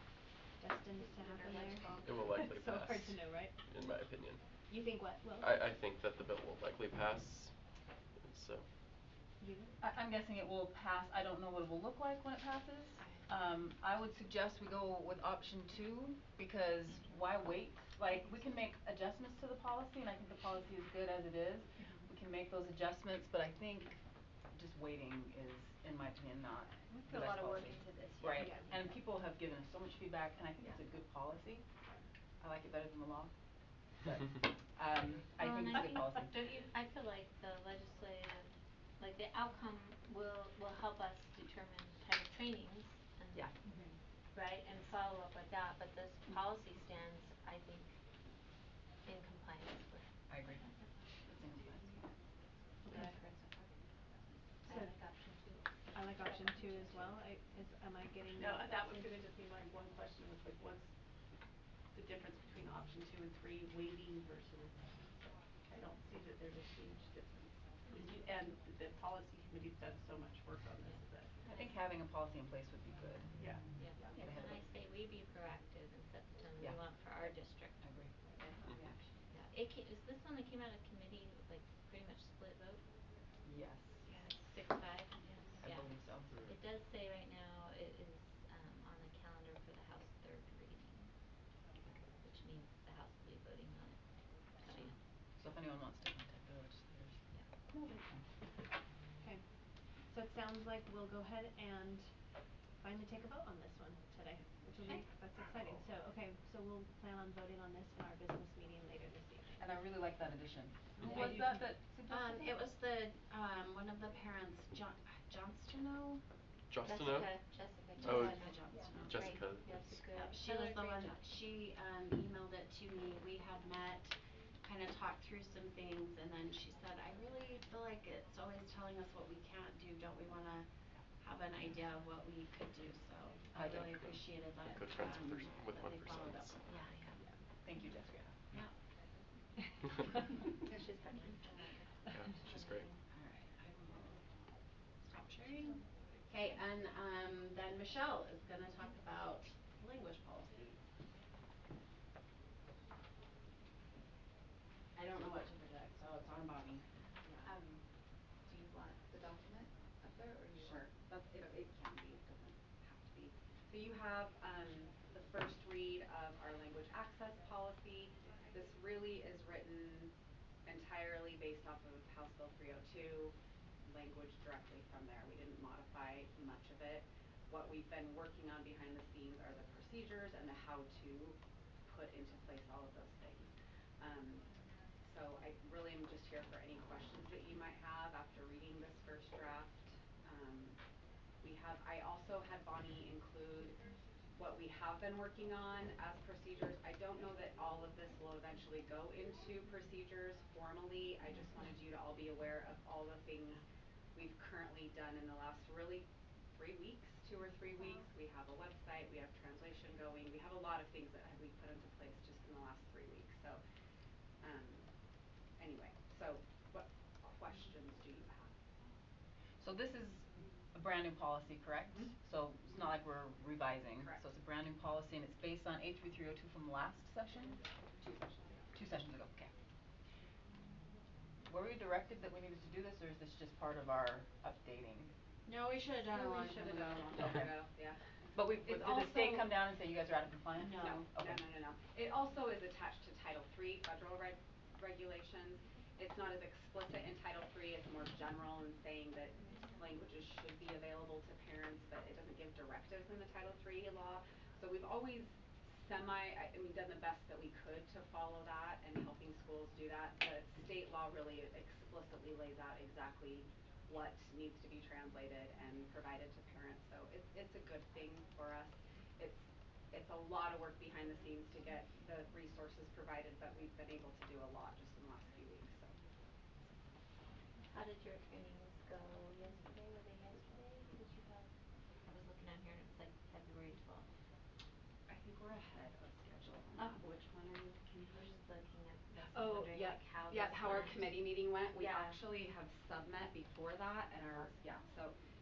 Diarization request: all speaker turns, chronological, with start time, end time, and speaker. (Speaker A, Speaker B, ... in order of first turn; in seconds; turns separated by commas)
Speaker A: 0.6-3.6, Speaker B: 1.3-2.1, Speaker C: 2.0-4.5, Speaker A: 4.7-5.5, Speaker C: 5.4-7.6, Speaker C: 8.1-8.7, Speaker A: 9.4-9.7, Speaker D: 9.8-24.0, Speaker D: 24.5-31.6, Speaker E: 26.9-27.7, Speaker A: 28.3-28.7, Speaker D: 32.4-33.3, Speaker D: 34.0-36.3, Speaker F: 35.3-43.6, Speaker A: 43.6-43.9, Speaker F: 44.3-47.9, Speaker F: 49.0-50.7, Speaker D: 50.3-50.6, Speaker D: 51.2-52.0, Speaker A: 52.8-53.1, Speaker F: 52.9-53.7, Speaker F: 54.3-55.7, Speaker A: 54.6-55.0, Speaker A: 55.9-58.8, Speaker F: 56.2-56.9, Speaker E: 58.3-60.9, Speaker E: 61.9-71.4, Speaker D: 71.5-74.6, Speaker E: 73.4-74.2, Speaker F: 73.7-77.7, Speaker D: 77.8-78.1, Speaker F: 79.3-82.8, Speaker D: 83.4-84.0, Speaker F: 84.1-91.1, Speaker D: 85.6-86.3, Speaker F: 92.2-94.0, Speaker F: 94.5-95.0, Speaker D: 95.4-98.3, Speaker A: 99.2-99.5, Speaker A: 100.0-109.7, Speaker D: 109.6-112.6, Speaker B: 112.1-116.2, Speaker C: 116.7-117.3, Speaker F: 116.8-121.2, Speaker B: 118.0-119.4, Speaker C: 118.0-119.9, Speaker B: 120.1-136.6, Speaker D: 133.5-134.2, Speaker C: 134.6-136.6, Speaker F: 136.7-137.2, Speaker D: 137.6-138.6, Speaker F: 140.7-143.0, Speaker C: 142.1-142.9, Speaker B: 143.1-144.2, Speaker B: 145.0-150.8, Speaker B: 154.9-156.8, Speaker G: 157.2-157.5, Speaker B: 157.4-157.7, Speaker G: 158.5-170.1, Speaker G: 170.7-173.3, Speaker G: 173.8-184.4, Speaker G: 185.0-190.8, Speaker G: 191.4-193.8, Speaker G: 194.3-203.6, Speaker G: 204.1-213.6, Speaker G: 214.4-214.8, Speaker G: 215.6-218.5, Speaker D: 219.6-227.6, Speaker G: 228.0-228.3, Speaker D: 228.7-229.5, Speaker D: 231.4-235.1, Speaker B: 235.4-237.4, Speaker G: 236.0-238.0, Speaker D: 237.2-237.5, Speaker D: 238.3-241.5, Speaker G: 238.6-239.5, Speaker B: 240.6-241.0, Speaker G: 240.8-275.9, Speaker F: 277.7-281.5, Speaker F: 282.1-284.1, Speaker G: 285.1-288.0, Speaker B: 286.8-287.8, Speaker F: 288.1-292.2, Speaker G: 289.1-295.1